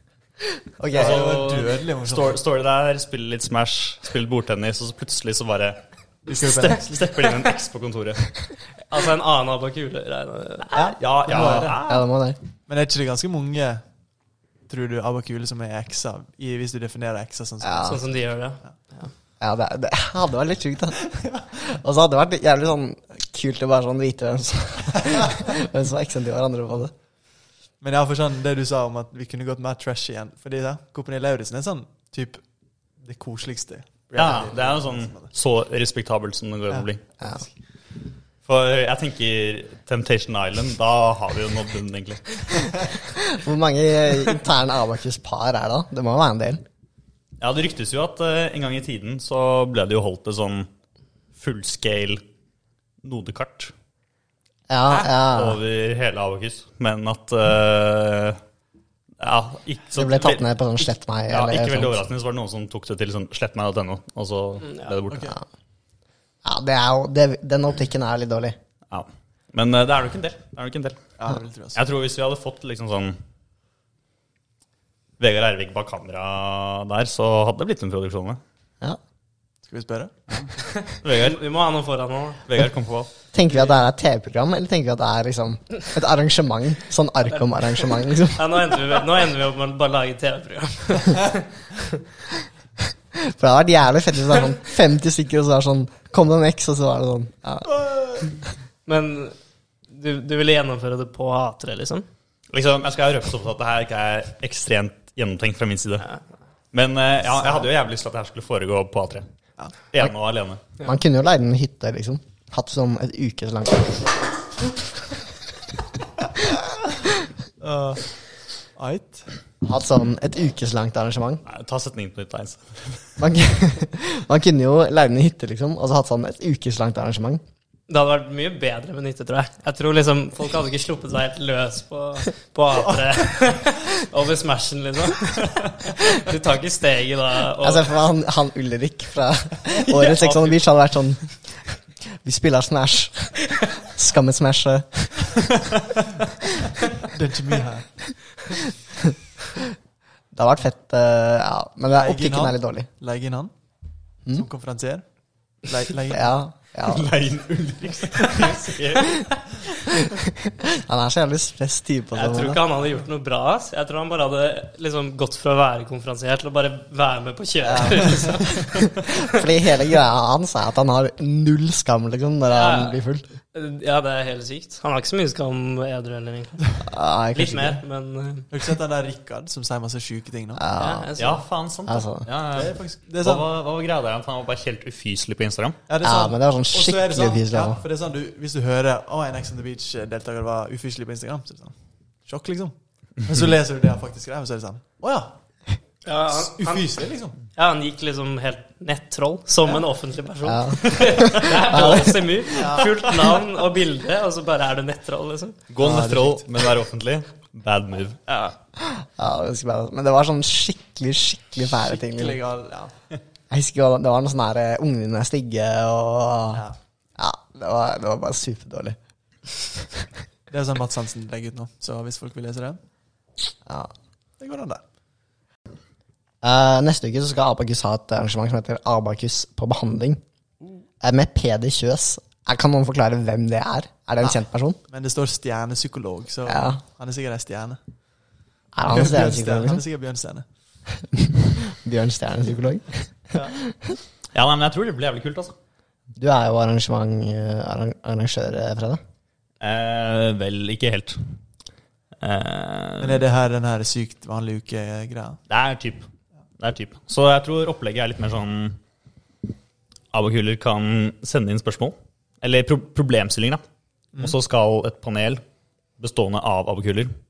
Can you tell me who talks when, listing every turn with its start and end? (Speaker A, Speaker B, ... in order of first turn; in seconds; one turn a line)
Speaker A: 0.8-1.3
Speaker B: 0.9-2.4
Speaker C: 0.9-8.3
Speaker B: 6.3-7.0
Speaker D: 8.9-11.0
Speaker B: 10.7-11.8
Speaker C: 10.8-12.1
Speaker A: 11.8-12.4
Speaker B: 12.7-13.8
Speaker B: 14.7-18.0
Speaker A: 17.6-18.0
Speaker D: 17.8-19.1
Speaker A: 19.4-26.9
Speaker B: 27.8-32.4
Speaker B: 33.0-35.3
Speaker C: 34.1-37.0
Speaker B: 36.7-37.5
Speaker C: 38.5-42.8
Speaker A: 43.2-46.6
Speaker C: 47.4-50.7
Speaker C: 51.4-52.2
Speaker C: 53.0-53.7
Speaker A: 54.7-55.6
Speaker C: 55.2-58.4
Speaker C: 59.2-60.4
Speaker A: 60.0-62.0
Speaker C: 61.3-65.4
Speaker D: 64.6-65.0
Speaker B: 65.1-65.4
Speaker A: 66.4-68.6
Speaker C: 68.9-71.0
Speaker B: 71.2-71.8
Speaker C: 71.8-73.2
Speaker C: 75.2-78.4
Speaker B: 79.7-80.2
Speaker D: 80.8-82.4
Speaker C: 81.0-81.4
Speaker C: 82.5-83.1
Speaker A: 83.3-88.8
Speaker D: 88.3-91.6
Speaker A: 93.2-97.8
Speaker B: 97.8-98.2
Speaker D: 98.9-99.3
Speaker D: 99.9-102.1
Speaker C: 102.5-106.1
Speaker C: 106.7-109.3
Speaker C: 109.9-110.6
Speaker A: 110.8-114.1
Speaker B: 117.6-118.0
Speaker B: 118.8-119.2
Speaker A: 119.6-121.4
Speaker C: 121.5-123.2
Speaker A: 123.2-127.4
Speaker D: 127.9-137.9
Speaker A: 137.6-141.4
Speaker D: 139.9-140.6
Speaker A: 142.2-145.5
Speaker B: 147.1-147.9
Speaker A: 148.6-149.6
Speaker A: 150.3-152.9
Speaker B: 151.9-153.5
Speaker B: 154.3-155.0
Speaker B: 155.6-156.4
Speaker A: 156.1-157.2
Speaker C: 156.8-159.7
Speaker A: 160.1-162.6
Speaker D: 162.1-169.4
Speaker A: 167.7-173.2
Speaker D: 172.5-173.0
Speaker D: 173.5-176.6
Speaker A: 176.8-177.8
Speaker D: 177.3-178.5
Speaker B: 178.5-180.6
Speaker A: 180.6-181.1
Speaker D: 180.7-181.4
Speaker C: 181.2-185.8
Speaker A: 181.9-182.3
Speaker B: 182.5-183.5
Speaker B: 185.9-191.7
Speaker A: 186.0-187.8
Speaker B: 192.3-195.4
Speaker D: 196.1-196.9
Speaker B: 196.3-197.4
Speaker D: 197.6-205.6
Speaker A: 200.4-202.4
Speaker B: 202.5-202.9
Speaker C: 205.7-208.2
Speaker B: 205.8-206.5
Speaker A: 208.8-212.4
Speaker B: 211.7-212.9
Speaker A: 213.5-216.7
Speaker A: 217.2-219.0
Speaker B: 220.5-222.8
Speaker A: 223.7-223.9
Speaker B: 224.4-224.8
Speaker A: 226.4-230.2
Speaker A: 231.0-234.8
Speaker B: 234.9-237.8
Speaker A: 236.5-236.8
Speaker A: 238.7-239.8
Speaker B: 238.9-240.5
Speaker A: 241.1-244.0
Speaker C: 244.3-245.5
Speaker A: 246.2-249.0
Speaker C: 249.6-251.2
Speaker C: 252.2-253.2
Speaker B: 253.0-255.4
Speaker C: 255.5-256.1
Speaker C: 256.6-258.8
Speaker C: 260.1-263.6
Speaker C: 264.2-265.4
Speaker C: 266.0-267.1